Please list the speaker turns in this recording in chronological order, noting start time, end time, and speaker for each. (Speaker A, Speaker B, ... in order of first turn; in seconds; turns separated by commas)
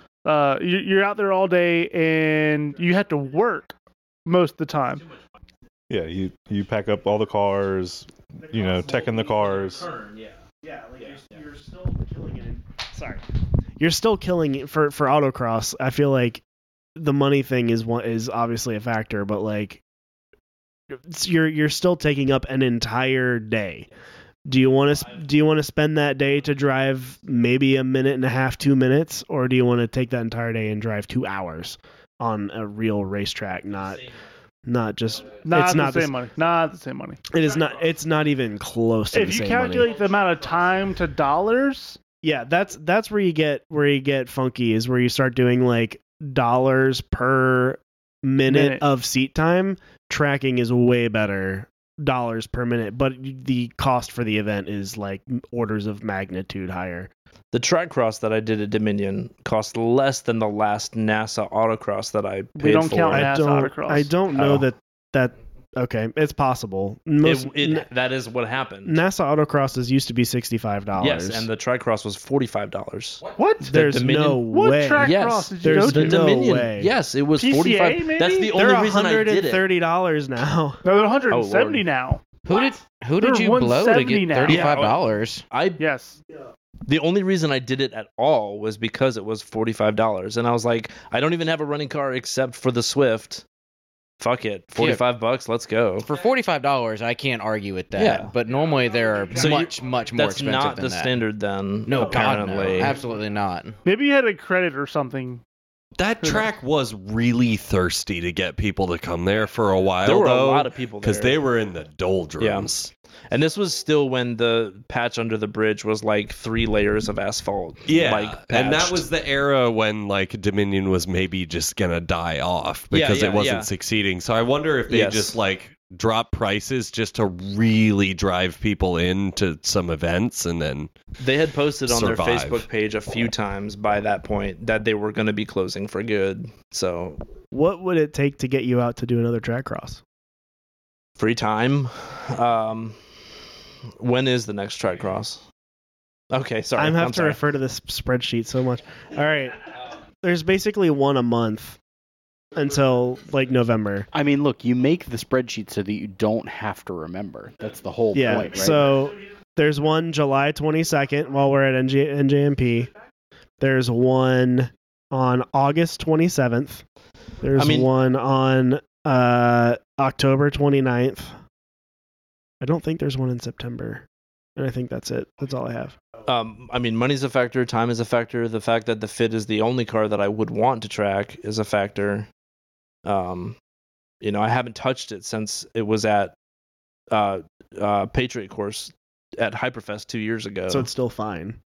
Speaker A: 0.2-3.7, Speaker A: 4.3-5.1, Speaker B: 5.9-9.9, Speaker C: 8.5-9.8, Speaker D: 9.5-10.4, Speaker C: 10.6-13.2, Speaker D: 11.0-11.4, Speaker C: 13.8-16.4, Speaker C: 17.0-19.8, Speaker C: 20.9-23.9, Speaker C: 24.4-34.1, Speaker C: 34.6-36.2, Speaker A: 35.5-37.2, Speaker C: 37.3-40.0, Speaker A: 39.1-42.0, Speaker C: 42.2-57.1, Speaker A: 48.5-48.8, Speaker D: 57.5-63.3, Speaker A: 62.6-64.1, Speaker C: 63.1-67.9, Speaker D: 64.4-64.6, Speaker D: 67.2-69.0, Speaker C: 68.8-71.5, Speaker D: 71.0-74.4, Speaker A: 73.4-73.8, Speaker C: 73.6-76.9, Speaker A: 74.4-76.5, Speaker D: 75.0-79.7, Speaker A: 77.4-78.5, Speaker C: 78.5-80.8, Speaker A: 80.8-82.3, Speaker D: 81.3-81.8, Speaker E: 82.5-85.5, Speaker A: 83.2-84.9, Speaker D: 84.5-85.0, Speaker D: 85.5-85.8, Speaker A: 85.8-86.2, Speaker D: 86.9-93.4, Speaker D: 94.2-96.1, Speaker E: 94.8-95.0, Speaker E: 96.0-101.2, Speaker D: 98.0-98.3, Speaker A: 99.4-99.6, Speaker D: 99.4-103.0, Speaker E: 101.8-103.8, Speaker A: 103.8-105.4, Speaker F: 106.0-112.9, Speaker D: 110.0-111.4, Speaker D: 112.4-112.7, Speaker D: 113.3-119.1, Speaker F: 117.9-130.9, Speaker D: 122.9-123.7, Speaker D: 124.9-125.3, Speaker D: 131.2-137.2, Speaker F: 131.9-132.7, Speaker C: 137.5-140.0, Speaker D: 141.2-143.0, Speaker D: 144.0-145.4, Speaker D: 146.3-147.4, Speaker C: 146.8-151.8, Speaker C: 152.6-154.1, Speaker G: 154.1-159.1, Speaker C: 158.1-162.9, Speaker C: 163.6-166.8, Speaker C: 167.4-171.3, Speaker D: 167.6-167.9, Speaker C: 172.6-176.0, Speaker D: 176.2-182.3, Speaker D: 183.1-183.6, Speaker D: 184.2-186.3, Speaker D: 187.1-190.9, Speaker C: 190.7-191.6